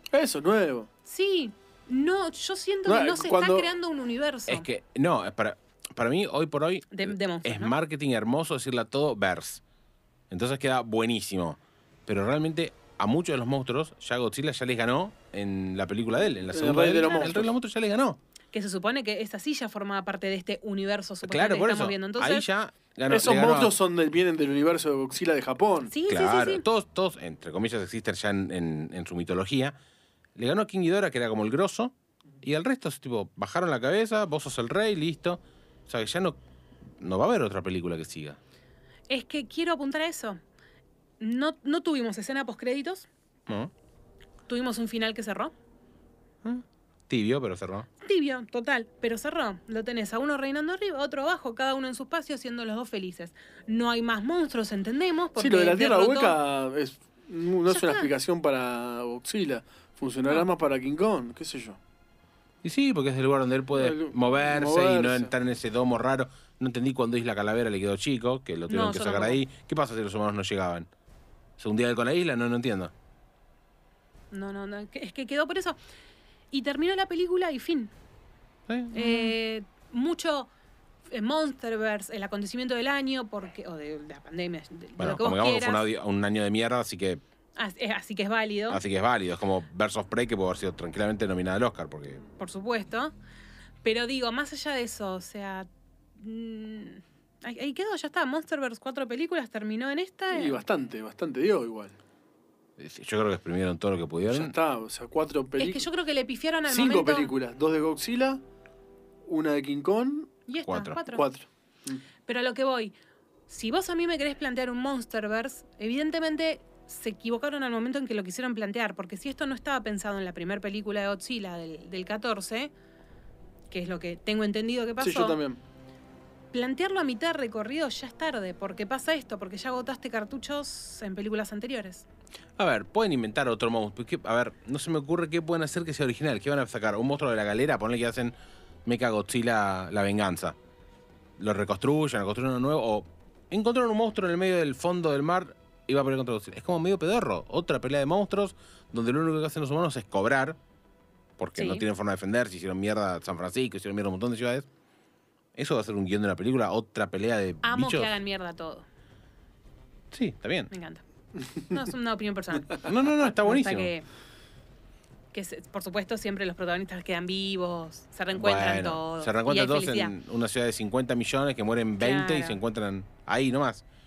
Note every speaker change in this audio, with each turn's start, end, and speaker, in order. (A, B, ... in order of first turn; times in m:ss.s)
0:00.1-0:00.9 A
0:01.1-0:04.7 B
0:02.9-0:03.7 A
0:04.5-0:09.6 C
0:06.9-0:07.8 B
0:10.3-0:18.2 C
0:16.5-0:17.5 A
0:18.5-0:22.5 B
0:21.2-0:23.8 C
0:23.1-0:25.9 A
0:25.9-0:26.6 B
0:26.1-0:29.8 C
0:30.4-0:36.4 C
0:37.0-0:38.4 C
0:39.1-0:40.4 B
0:41.2-0:43.1 B
0:43.5-0:43.7 C
0:44.5-0:45.5 B
0:46.4-0:47.9 C
0:48.0-0:56.4 B
0:55.4-1:01.8 A
0:57.7-0:58.1 B
1:02.6-1:10.9 C
1:03.7-1:05.3 A
1:08.7-1:09.4 B
1:11.6-1:12.9 C
1:14.3-1:15.8 B
1:16.5-1:17.9 B
1:18.7-1:19.4 C
1:18.9-1:20.5 B
1:21.1-1:25.8 B
1:25.0-1:27.2 C
1:27.6-1:28.8 B
1:28.7-1:32.2 C
1:32.4-1:33.1 B
1:33.8-1:40.6 B
1:40.3-1:42.0 A
1:42.8-1:44.5 C
1:44.3-1:45.9 A
1:45.6-1:47.3 B
1:46.7-1:48.4 A
1:49.3-1:50.4 A
1:50.5-1:51.2 B
1:50.6-1:51.0 C
1:51.1-1:52.0 A
1:52.3-1:53.0 B
1:53.5-2:02.7 B
2:03.7-2:05.4 B
2:05.0-2:05.6 A
2:06.5-2:12.1 B
2:12.6-2:20.6 C
2:21.4-2:30.6 C
2:31.4-2:34.7 C
2:31.6-2:31.8 B
2:35.6-2:38.1 C
2:37.6-2:38.9 B
2:40.1-2:40.7 C
2:40.7-2:41.0 B
2:41.7-2:44.1 B
2:42.8-2:43.9 C
2:45.3-2:50.1 B
2:48.3-2:53.8 C
2:52.0-2:52.6 B